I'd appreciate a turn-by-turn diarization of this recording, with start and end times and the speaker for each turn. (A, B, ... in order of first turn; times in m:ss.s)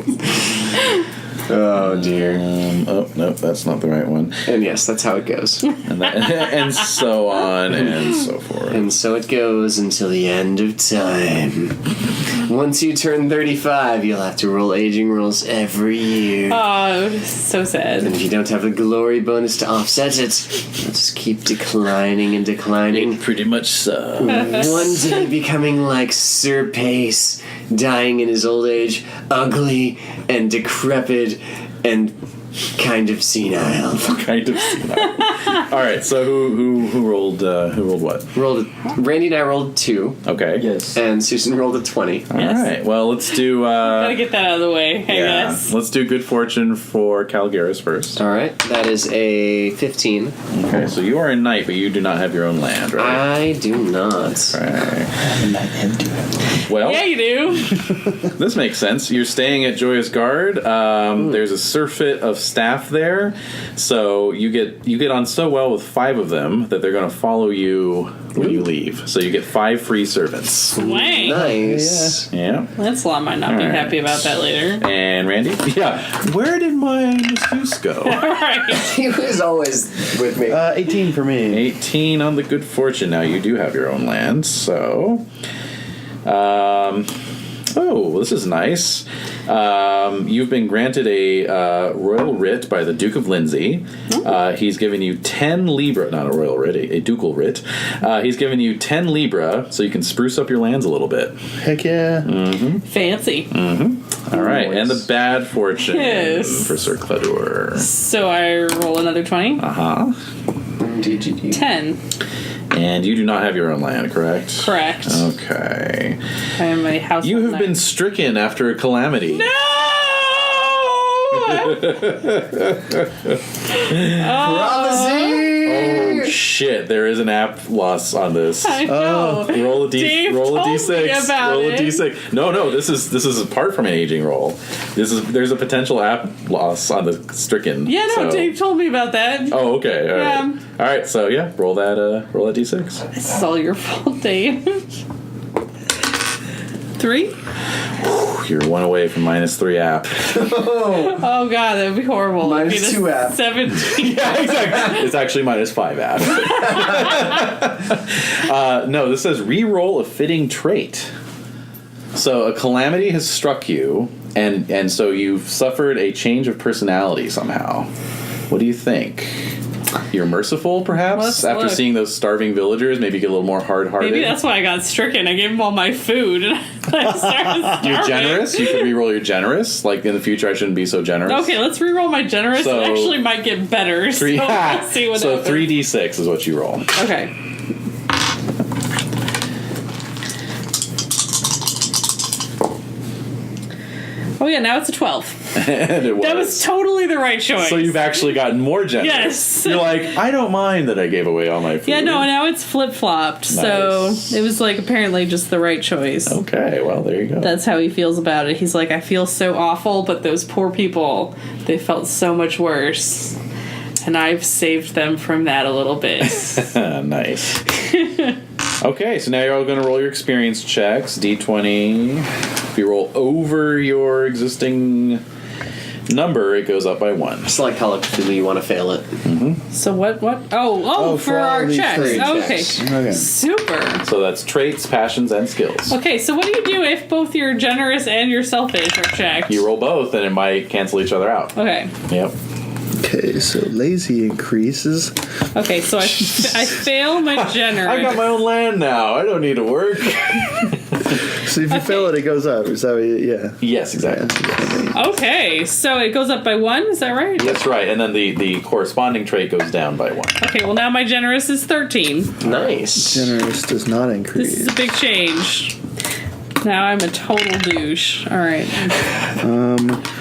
0:01.5-0:02.4 A
0:01.8-0:04.4 B
0:04.4-0:05.7 A
0:05.8-0:08.9 B
0:07.7-0:08.1 A
0:08.7-0:11.8 A
0:12.4-0:16.6 A
0:16.5-0:18.2 C
0:18.0-0:23.2 A
0:22.9-0:25.0 B
0:24.2-0:32.2 A
0:32.8-0:34.2 A
0:34.1-0:38.3 B
0:38.3-0:40.2 A
0:40.2-0:40.7 B
0:40.6-0:41.0 D
0:40.9-0:42.3 A
0:42.3-0:44.2 B
0:42.4-0:42.7 C
0:43.8-0:45.7 C
0:45.1-0:48.2 B
0:48.2-0:50.3 A
0:50.5-0:53.2 B
0:53.0-0:54.6 A
0:54.5-0:55.1 B
0:55.2-0:56.2 D
0:56.7-0:57.1 B
0:56.8-0:57.7 C
0:58.2-1:10.8 B
1:10.7-1:11.4 C
1:10.8-1:12.2 D
1:11.1-1:12.3 A
1:12.3-1:12.7 B
1:12.7-1:14.8 C
1:13.4-1:18.2 B
1:18.0-1:18.9 C
1:18.7-1:20.7 A
1:20.5-1:21.6 D
1:21.5-1:25.2 B
1:26.2-1:27.1 B
1:27.7-1:41.3 B
1:41.6-1:42.3 D
1:42.2-1:42.8 B
1:42.8-1:43.5 C
1:43.5-1:47.9 B
1:44.4-1:44.9 A
1:45.8-1:46.7 C
1:47.8-1:49.6 C
1:49.6-1:50.2 B
1:50.8-1:51.6 A
1:51.5-1:52.0 C
1:52.7-1:56.2 B
1:54.6-1:55.3 C
1:56.6-1:57.8 C
1:57.2-1:59.5 B
1:59.3-2:02.0 C
2:01.3-2:03.0 B
2:03.7-2:05.5 C
2:03.9-2:04.3 B
2:04.3-2:06.1 D
2:04.4-2:06.3 A
2:05.6-2:18.5 B
2:08.6-2:12.0 C
2:08.8-2:09.5 D
2:17.8-2:20.6 C
2:19.5-2:23.0 B
2:23.1-2:24.8 C
2:27.0-2:27.4 C
2:28.0-2:30.4 B
2:30.4-2:31.1 A
2:31.0-2:35.1 C
2:32.4-2:33.4 A
2:33.9-2:41.1 B
2:42.1-2:47.9 B
2:48.5-2:49.5 B
2:50.1-2:54.4 B
2:51.0-2:51.9 C
2:54.0-2:58.9 C
2:57.8-3:01.6 B
3:01.2-3:05.8 C
3:02.5-3:03.2 B
3:04.1-3:06.9 B
3:06.9-3:07.3 C
3:14.4-3:15.4 C
3:15.5-3:16.6 B
3:16.0-3:18.4 C
3:17.6-3:22.3 B
3:19.0-3:20.1 C
3:21.8-3:26.4 C
3:23.5-3:24.4 B
3:26.3-3:27.5 B
3:27.4-3:33.4 C
3:34.0-3:36.7 C
3:36.5-3:37.6 B
3:37.8-3:38.3 C
3:38.8-3:45.2 B
3:46.1-3:47.5 B
3:47.4-3:49.2 A
3:49.2-3:49.6 B
3:49.7-3:54.0 C
3:50.9-3:53.3 D
3:51.9-3:52.8 A
3:54.0-3:56.0 B
3:55.9-3:59.6 C
3:59.5-4:01.5 B
4:01.5-4:01.9 C
4:02.1-4:02.3 B
4:03.0-4:05.1 D
4:05.5-4:08.3 C
4:06.2-4:06.5 B
4:07.3-4:10.8 B
4:11.4-4:15.0 D
4:11.7-4:12.2 C
4:13.6-4:14.8 B
4:14.9-4:17.6 C
4:17.4-4:20.4 B
4:20.4-4:22.4 C
4:22.4-4:22.7 B
4:22.4-4:23.3 A
4:22.9-4:24.8 D
4:24.4-4:25.8 C
4:26.6-4:29.0 C
4:29.4-4:30.0 D